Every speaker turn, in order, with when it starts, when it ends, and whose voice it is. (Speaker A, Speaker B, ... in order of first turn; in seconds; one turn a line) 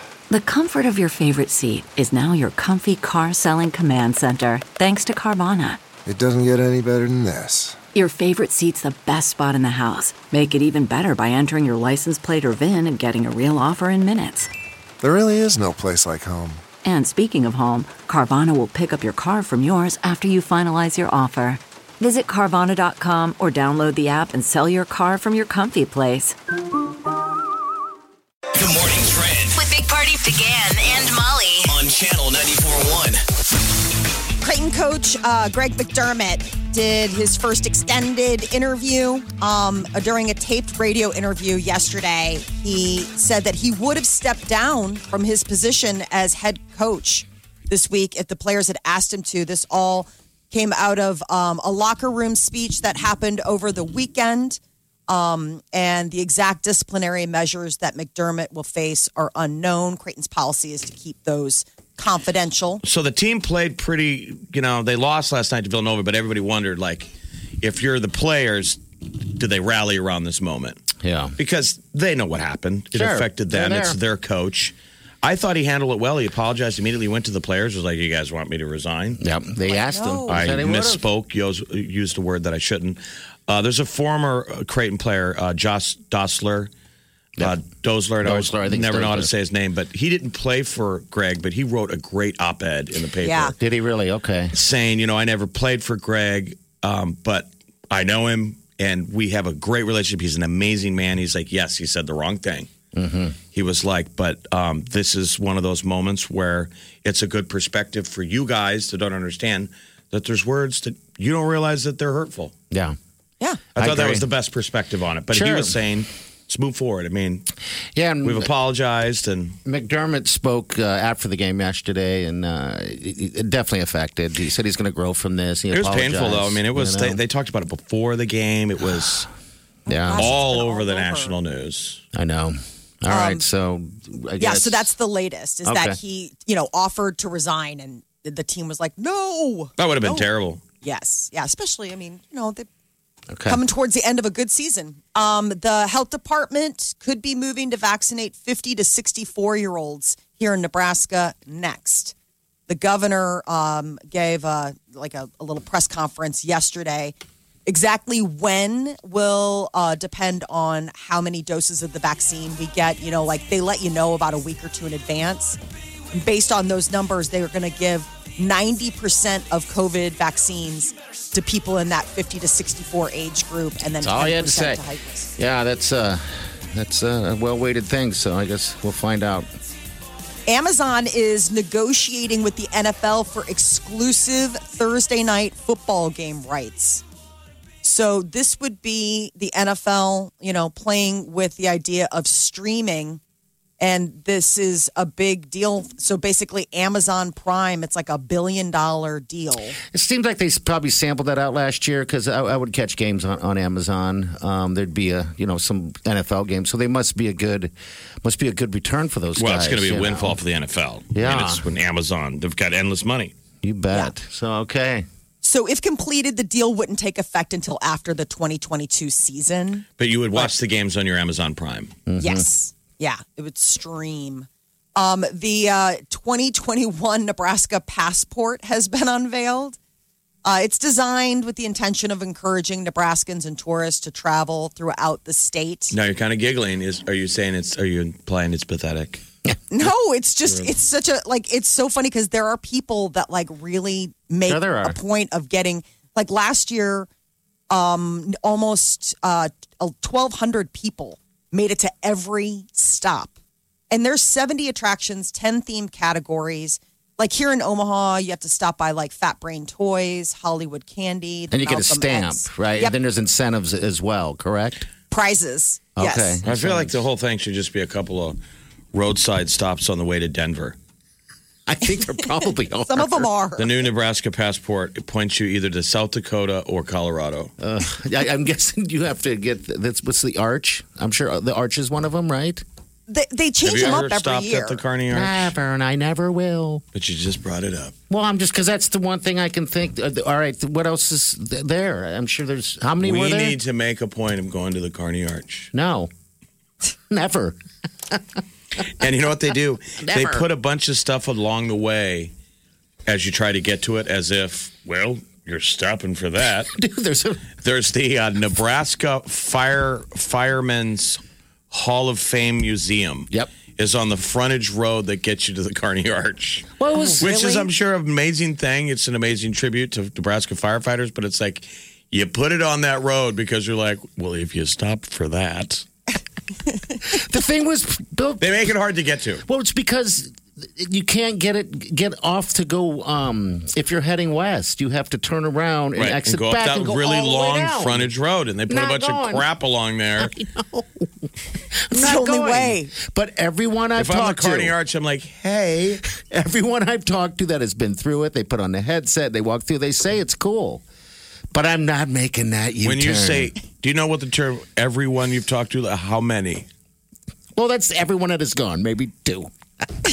Speaker A: 0.3-5.8
Speaker B: 6.0-7.8
Speaker A: 7.9-14.5
Speaker B: 15.0-16.6
Speaker A: 16.8-26.3
Speaker C: 28.6-29.6
Speaker D: 29.5-31.8
Speaker C: 31.6-33.2
Speaker E: 34.4-62.8
Speaker F: 62.8-67.1
Speaker F: 67.6-70.8
Speaker G: 71.0-71.3
Speaker F: 71.4-79.2
Speaker G: 72.9-74.0
Speaker G: 79.2-81.0
Speaker E: 79.7-80.4
Speaker F: 80.3-86.7
Speaker F: 87.4-93.5
Speaker G: 88.2-89.3
Speaker E: 93.2-93.5
Speaker G: 93.6-94.5
Speaker F: 94.5-102.7
Speaker G: 102.9-103.4
Speaker F: 103.5-112.5
Speaker E: 113.4-113.7
Speaker G: 113.8-114.2
Speaker F: 113.8-117.5
Speaker G: 115.3-115.8
Speaker G: 117.9-118.5
Speaker F: 118.2-119.6
Speaker G: 119.7-127.2
Speaker F: 125.7-129.3
Speaker E: 129.8-131.4
Speaker G: 129.9-130.3
Speaker F: 130.1-132.0
Speaker G: 132.1-134.9
Speaker E: 133.1-133.4
Speaker E: 134.4-140.3
Speaker G: 135.6-136.0
Speaker F: 139.8-140.6
Speaker E: 140.8-142.7
Speaker G: 143.3-143.6
Speaker E: 143.5-152.1
Speaker E: 152.7-157.1
Speaker E: 157.7-165.6
Speaker E: 166.1-175.3
Speaker G: 174.0-174.8
Speaker G: 175.4-179.5
Speaker E: 180.5-187.0
Speaker E: 187.8-193.2
Speaker E: 193.8-199.8
Speaker G: 199.9-210.4
Speaker F: 209.3-213.3
Speaker G: 211.1-211.6
Speaker G: 213.6-215.0
Speaker E: 215.4-219.8
Speaker F: 220.0-221.9
Speaker G: 222.1-222.5
Speaker E: 222.2-229.8
Speaker E: 230.4-235.9
Speaker F: 235.9-239.2
Speaker E: 239.7-247.1
Speaker G: 244.4-245.0
Speaker E: 247.7-253.3
Speaker E: 253.9-263.0
Speaker G: 261.5-264.9
Speaker E: 265.1-266.4
Speaker G: 265.9-267.0
Speaker F: 266.4-268.4
Speaker F: 268.9-270.8
Speaker G: 271.6-273.3
Speaker E: 272.9-273.8
Speaker F: 273.6-277.5
Speaker G: 277.6-282.6
Speaker E: 283.1-284.8
Speaker F: 283.6-285.5
Speaker G: 285.1-286.8
Speaker F: 286.9-287.9
Speaker G: 288.1-293.6
Speaker F: 293.0-295.7
Speaker G: 295.7-296.1
Speaker G: 297.1-297.6
Speaker G: 298.1-298.4
Speaker F: 298.8-302.3
Speaker G: 300.0-300.4
Speaker F: 303.1-306.7
Speaker G: 306.7-307.5
Speaker F: 307.6-325.9
Speaker G: 316.8-317.3
Speaker E: 316.9-317.7
Speaker G: 327.0-328.6
Speaker F: 328.4-329.4
Speaker G: 329.4-338.1
Speaker F: 335.9-340.3
Speaker G: 338.7-339.4
Speaker G: 340.2-341.2
Speaker G: 341.9-344.7
Speaker E: 341.9-342.9
Speaker F: 344.0-346.0
Speaker G: 346.1-350.8
Speaker G: 351.5-353.5
Speaker F: 352.8-356.7
Speaker G: 357.6-359.5